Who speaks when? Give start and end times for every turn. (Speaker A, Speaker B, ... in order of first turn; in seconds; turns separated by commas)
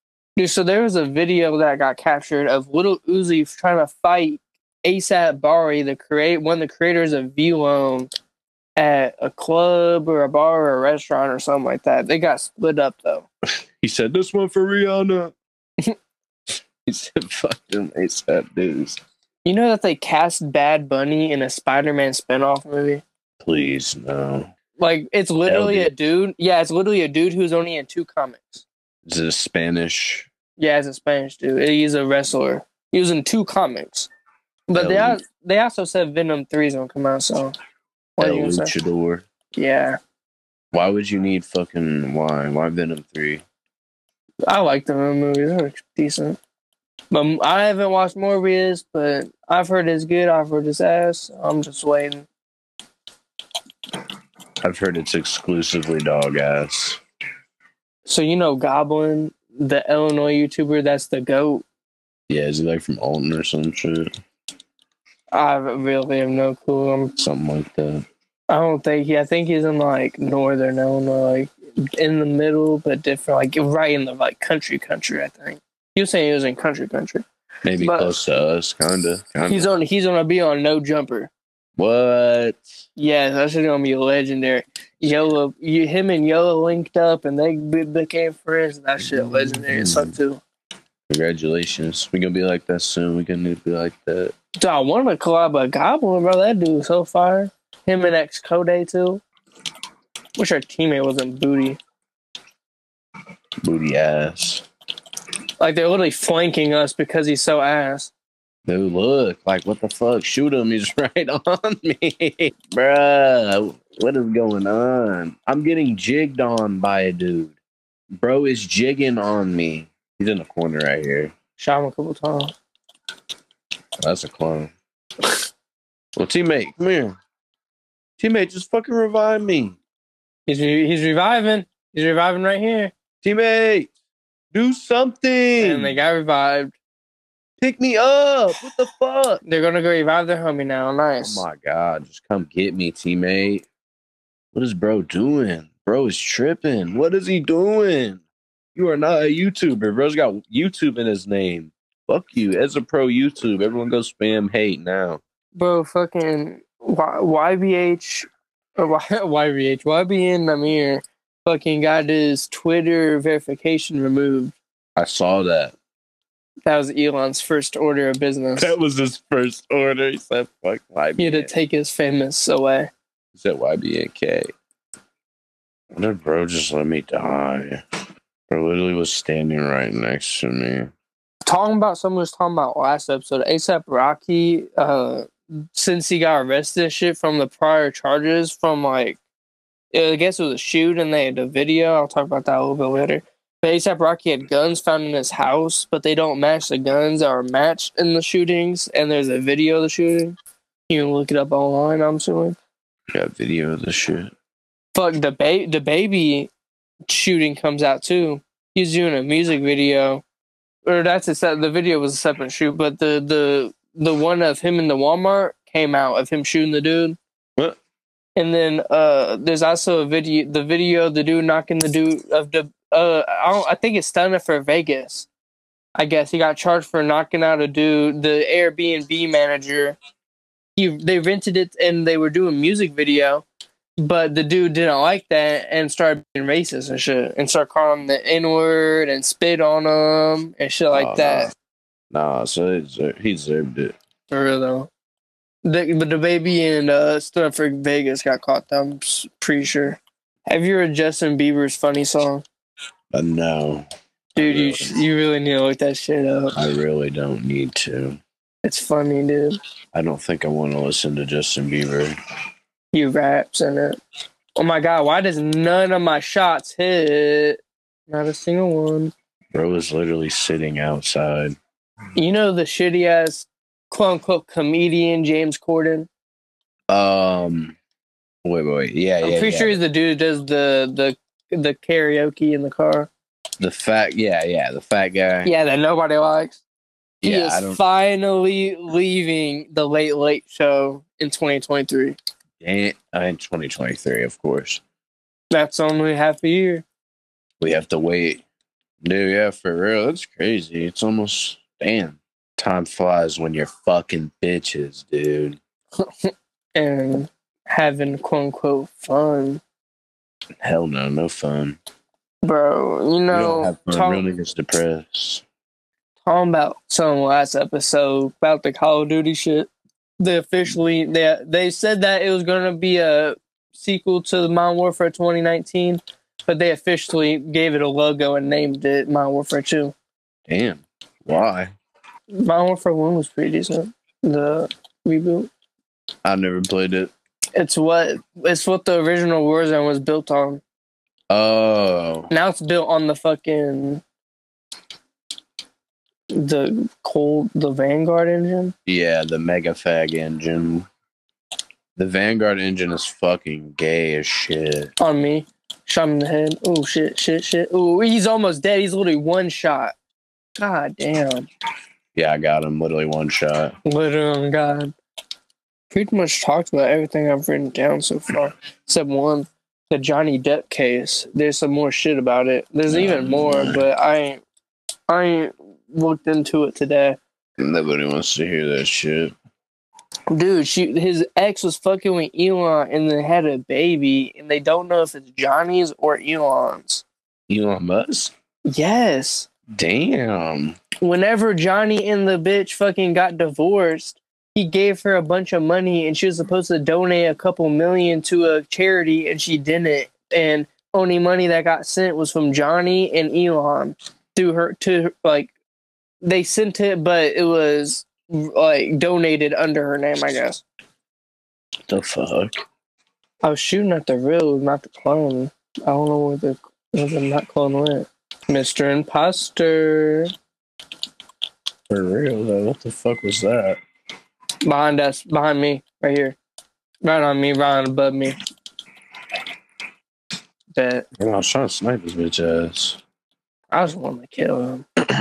Speaker A: 0.4-8.1, Speaker A: 8.8-13.3, Speaker B: 13.8-15.3, Speaker B: 16.9-19.0, Speaker A: 19.4-23.0, Speaker B: 23.4-24.5, Speaker A: 24.8-28.6, Speaker B: 25.5-25.9, Speaker B: 29.1-30.3, Speaker A: 30.6-34.1, Speaker A: 34.7-37.5, Speaker B: 34.8-35.2, Speaker A: 38.2-38.7, Speaker B: 38.2-39.2, Speaker A: 39.5-40.0, Speaker B: 40.7-43.4, Speaker A: 44.5-46.4, Speaker A: 47.1-52.3, Speaker B: 54.6-57.0, Speaker A: 58.1-61.6, Speaker B: 62.3-64.1, Speaker A: 65.3-67.2, Speaker B: 67.2-68.0, Speaker A: 68.5-77.2, Speaker B: 77.6-79.7, Speaker A: 77.8-78.1, Speaker A: 79.5-81.3, Speaker B: 81.8-82.7, Speaker A: 83.0-90.4, Speaker B: 89.0-90.2, Speaker B: 91.1-94.3, Speaker A: 94.6-99.2, Speaker A: 100.4-101.8, Speaker B: 103.6-104.7, Speaker A: 105.6-108.1, Speaker B: 108.7-117.6, Speaker B: 118.2-121.3, Speaker A: 121.6-122.5, Speaker B: 124.0-124.7, Speaker B: 126.2-127.2, Speaker B: 128.2-129.8, Speaker A: 130.5-132.9, Speaker B: 133.2-133.9, Speaker B: 134.5-136.0, Speaker A: 135.6-136.8, Speaker B: 137.6-139.4, Speaker A: 139.4-141.4, Speaker B: 141.2-143.7, Speaker B: 144.5-148.2, Speaker B: 148.8-155.2, Speaker A: 155.6-164.6, Speaker B: 165.0-165.7, Speaker A: 166.7-168.7, Speaker B: 168.6-171.5, Speaker A: 171.2-172.9, Speaker B: 173.3-174.5, Speaker B: 175.9-177.8, Speaker B: 178.5-180.9, Speaker A: 181.5-189.2, Speaker A: 189.9-200.4, Speaker A: 200.9-202.6, Speaker B: 203.1-204.3, Speaker A: 204.9-206.5, Speaker A: 207.1-210.2, Speaker A: 210.8-217.2, Speaker A: 218.4-225.3, Speaker A: 226.0-230.0, Speaker A: 230.8-233.4, Speaker A: 234.0-241.5, Speaker B: 240.9-241.5, Speaker B: 242.1-244.0, Speaker A: 244.3-244.9, Speaker A: 245.6-252.4, Speaker B: 253.1-253.9, Speaker A: 254.3-256.6, Speaker B: 254.4-255.0, Speaker B: 256.5-258.2, Speaker A: 258.6-259.6, Speaker B: 259.9-262.2, Speaker A: 262.9-264.0, Speaker A: 264.6-269.1, Speaker B: 269.5-271.6, Speaker A: 272.2-276.1, Speaker B: 276.9-277.8, Speaker B: 278.4-279.8, Speaker A: 279.2-283.1, Speaker B: 283.6-285.5, Speaker A: 285.4-286.6, Speaker B: 287.2-287.8, Speaker A: 287.2-292.2, Speaker B: 292.6-294.8, Speaker A: 295.5-296.9, Speaker B: 297.6-298.4, Speaker B: 299.0-305.6, Speaker A: 306.0-309.6, Speaker B: 310.6-311.8, Speaker A: 312.4-314.2, Speaker B: 313.3-315.4, Speaker A: 316.2-329.9, Speaker B: 330.5-331.7, Speaker A: 332.3-335.5, Speaker B: 336.2-337.1, Speaker A: 337.6-340.6, Speaker B: 341.3-342.3, Speaker A: 342.3-344.0, Speaker A: 346.3-348.7, Speaker B: 348.9-350.9, Speaker B: 352.0-354.9, Speaker A: 355.0-359.9, Speaker A: 360.6-361.5, Speaker B: 362.1-363.8, Speaker A: 363.9-364.9, Speaker A: 365.9-374.4, Speaker B: 372.9-373.9, Speaker A: 375.1-377.2, Speaker B: 377.6-379.3, Speaker A: 380.3-387.0, Speaker B: 387.5-388.3, Speaker A: 388.7-389.5, Speaker B: 389.8-390.8, Speaker A: 391.0-405.5, Speaker A: 406.2-410.6, Speaker B: 411.9-412.6, Speaker A: 413.4-420.3, Speaker B: 421.9-423.8, Speaker A: 424.6-426.4, Speaker A: 427.0-428.4, Speaker A: 430.7-431.1, Speaker B: 431.2-433.0, Speaker A: 433.7-434.9